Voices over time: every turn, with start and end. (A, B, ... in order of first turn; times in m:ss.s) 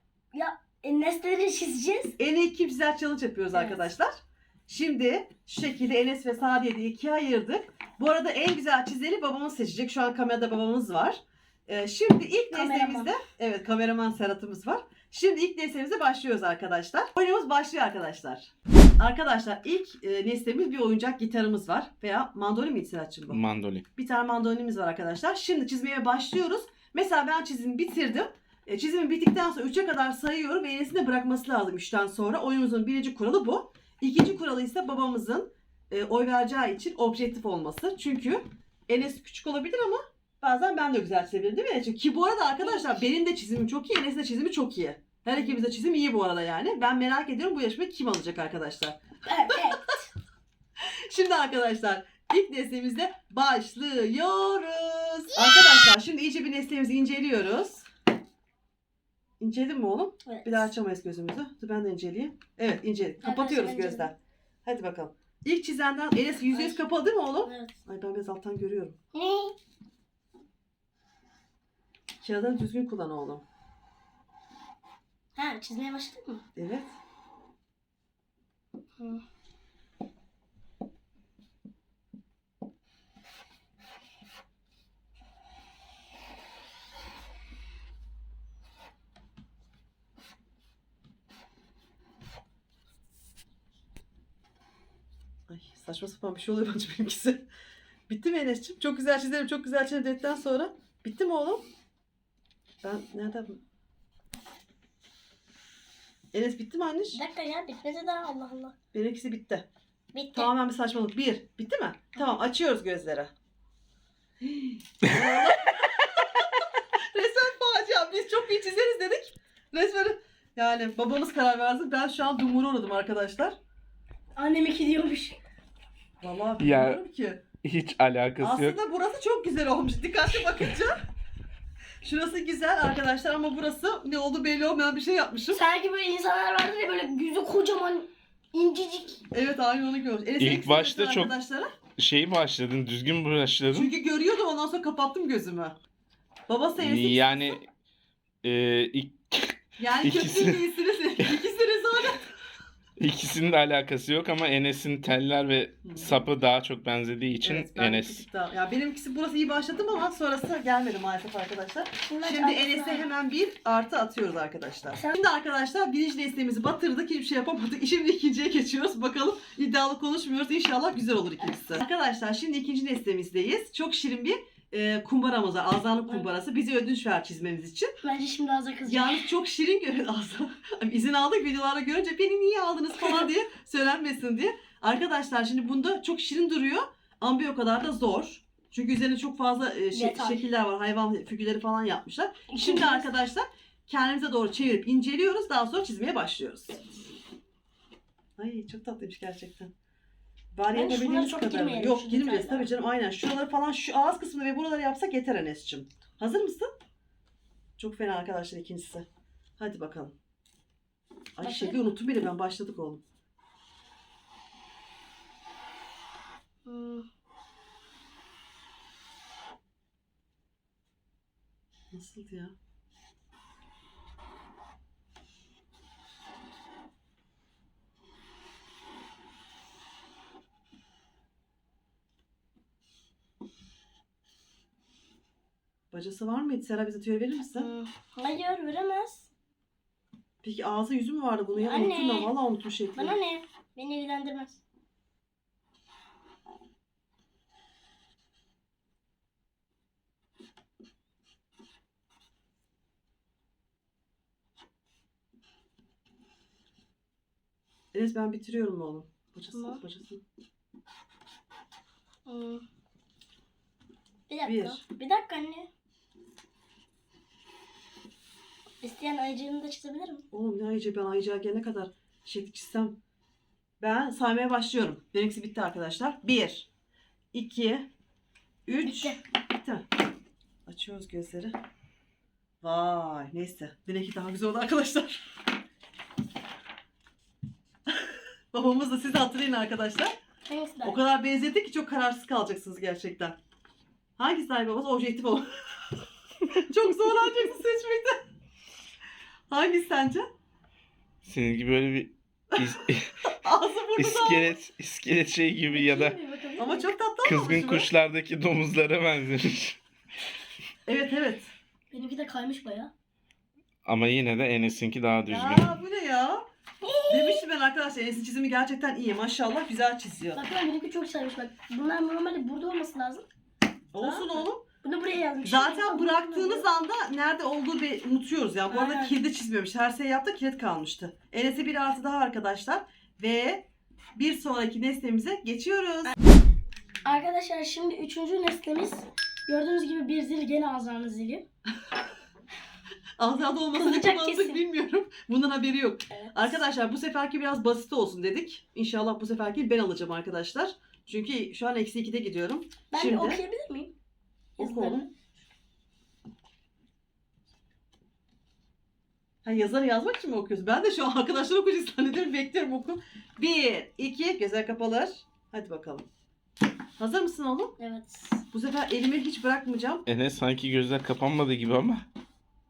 0:00.3-0:02.2 A
0:02.2-0:04.2 B
0:03.5-0:03.9 A
0:04.7-0:23.4 B
0:12.5-0:13.1 A
0:23.3-0:23.8 C
0:24.0-0:49.0 B
0:42.6-0:43.0 A
0:45.3-0:45.6 A
0:49.2-0:50.0 A
0:51.1-0:57.8 B
0:59.4-1:09.0 B
1:00.2-1:00.7 A
1:03.2-1:04.1 A
1:06.5-1:06.8 A
1:07.4-1:07.7 A
1:09.1-1:09.5 A
1:12.2-1:13.4 B
1:15.3-1:16.4 A
1:16.6-1:16.9 B
1:19.0-1:19.2 A
1:35.5-1:37.5 B
1:38.1-1:41.6 B
1:42.8-1:43.6 B
1:46.3-1:47.2 B
1:47.1-1:48.7 A
1:48.9-1:49.7 B
1:50.1-1:50.5 A
1:50.3-1:53.3 B
1:54.4-1:56.4 B
1:57.1-2:03.6 B
2:04.4-2:05.4 A
2:06.2-2:07.4 B
2:06.6-2:07.0 C
2:07.6-2:08.8 C
2:08.4-2:11.0 B
2:12.0-2:15.6 B
2:15.5-2:19.2 A
2:19.3-2:21.7 B
2:20.4-2:21.3 C
2:22.0-2:23.9 C
2:23.7-2:25.8 B
2:26.5-2:27.5 B
2:26.8-2:27.7 C
2:28.4-2:30.6 C
2:29.8-2:32.2 B
2:33.0-2:38.2 C
2:35.8-2:36.2 B
2:37.4-2:57.9 B
2:42.0-2:43.1 A
2:58.0-2:59.3 A
2:58.8-3:16.8 B
3:03.0-3:03.3 A
3:09.9-3:10.4 A
3:12.5-3:13.1 A
3:18.4-3:19.7 B
3:20.5-3:26.7 B
3:20.7-3:22.7 A
3:27.8-3:29.0 B
3:29.6-3:30.1 B
3:31.4-3:33.0 B
3:31.4-3:31.8 A
3:36.6-3:37.0 A
3:41.9-3:42.5 B
3:55.9-3:57.7 B
3:57.5-3:59.3 A
4:00.4-4:03.2 B
4:01.5-4:02.3 A
4:02.9-4:04.6 A
4:17.9-4:20.2 B
4:19.5-4:19.8 A
4:22.2-4:22.6 A
4:24.3-4:25.7 A
4:24.4-4:24.8 B
4:28.8-4:30.2 A
4:30.3-4:32.9 B
4:33.8-4:36.7 B
4:37.3-4:37.9 B
4:38.6-4:39.8 B
4:38.8-4:39.2 A
4:40.6-4:41.6 B
4:42.6-4:45.2 B
4:48.5-4:50.1 B
4:50.4-4:51.0 A
4:50.8-4:53.4 B
4:54.2-4:55.5 B
4:56.6-4:58.2 B
4:59.5-5:00.2 B
5:01.2-5:03.3 C
5:03.4-5:04.5 B
5:04.0-5:06.1 C
5:05.7-5:06.9 A
5:06.6-5:07.9 B
5:07.2-5:09.8 C
5:10.9-5:11.5 B
5:11.9-5:12.9 A
5:13.8-5:15.7 C
5:15.3-5:16.4 B
5:16.8-5:17.4 A
5:17.1-5:20.4 B
5:20.3-5:23.2 A
5:23.9-5:24.6 B
5:24.0-5:26.6 A
5:25.4-5:36.1 B
5:28.7-5:29.1 A
5:37.0-5:41.4 A
5:43.2-5:53.4 B
5:43.7-5:44.6 A
5:46.1-5:46.6 A
5:52.9-5:53.9 A
5:54.6-5:55.1 B
5:54.6-5:55.1 A
5:59.4-6:06.0 B
6:07.0-6:07.7 B
6:07.8-6:08.4 A
6:08.5-6:10.0 B
6:10.0-6:12.0 C